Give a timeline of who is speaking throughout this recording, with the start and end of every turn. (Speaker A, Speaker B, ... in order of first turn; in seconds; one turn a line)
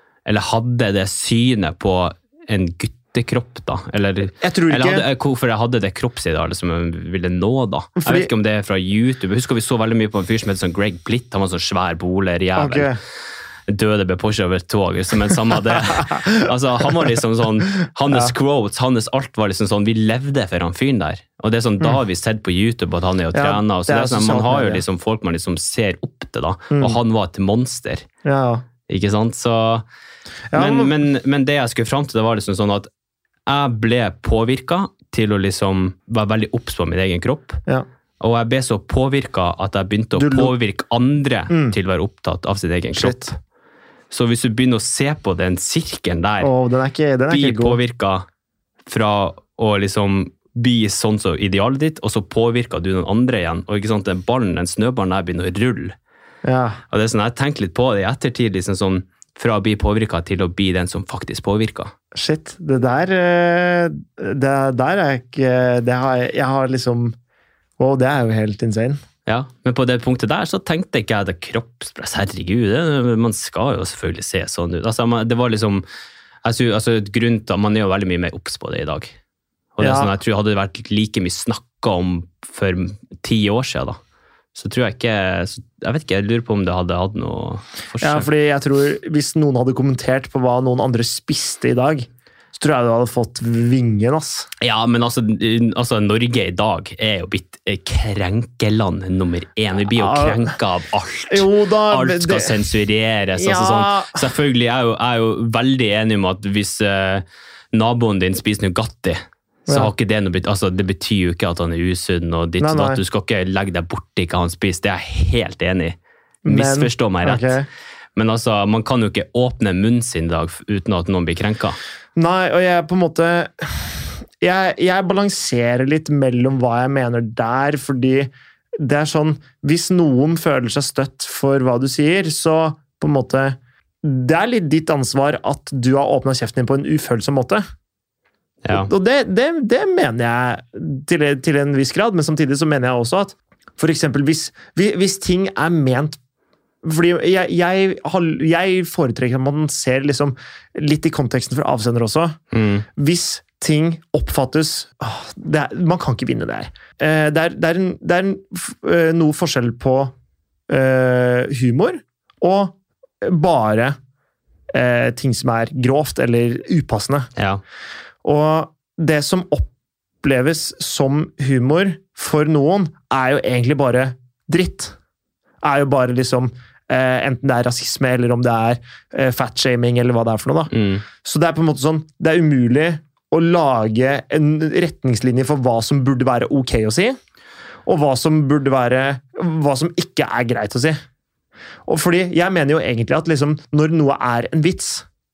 Speaker A: 0.2-12.9
Speaker B: 4.4-5.0
Speaker B: 8.0-8.3
Speaker B: 12.6-13.0
Speaker A: 13.7-28.1
Speaker B: 16.0-16.3
Speaker B: 23.3-24.8
Speaker B: 26.7-27.0
Speaker B: 28.2-28.6
Speaker A: 28.9-29.8
Speaker B: 30.5-30.9
Speaker A: 30.5-32.9
Speaker A: 33.5-37.6
Speaker A: 38.2-43.4
Speaker B: 40.2-40.5
Speaker B: 41.5-41.8
Speaker B: 42.9-43.3
Speaker A: 44.1-46.5
Speaker B: 46.4-47.8
Speaker A: 47.3-48.2
Speaker A: 48.9-56.0
Speaker B: 56.4-56.8
Speaker A: 56.9-61.9
Speaker B: 62.1-67.1
Speaker B: 67.8-69.0
Speaker A: 69.2-75.8
Speaker A: 76.4-79.1
Speaker A: 79.8-84.0
Speaker B: 79.8-80.1
Speaker A: 84.5-88.3
Speaker B: 88.0-94.5
Speaker A: 94.6-116.0
Speaker B: 99.9-100.5
Speaker B: 101.3-102.6
Speaker B: 103.3-104.2
Speaker B: 112.6-113.0
Speaker B: 116.4-117.7
Speaker A: 116.5-117.6
Speaker A: 118.2-121.8
Speaker B: 122.2-137.6
Speaker A: 138.6-138.9
Speaker B: 138.7-146.2
Speaker B: 146.8-152.4
Speaker A: 152.5-152.8
Speaker B: 152.9-160.1
Speaker B: 160.7-163.9
Speaker B: 164.7-167.3
Speaker A: 167.3-167.6
Speaker B: 168.2-169.7
Speaker B: 170.2-174.9
Speaker B: 175.6-187.2
Speaker A: 180.7-181.0
Speaker B: 187.8-191.0
Speaker B: 191.8-195.0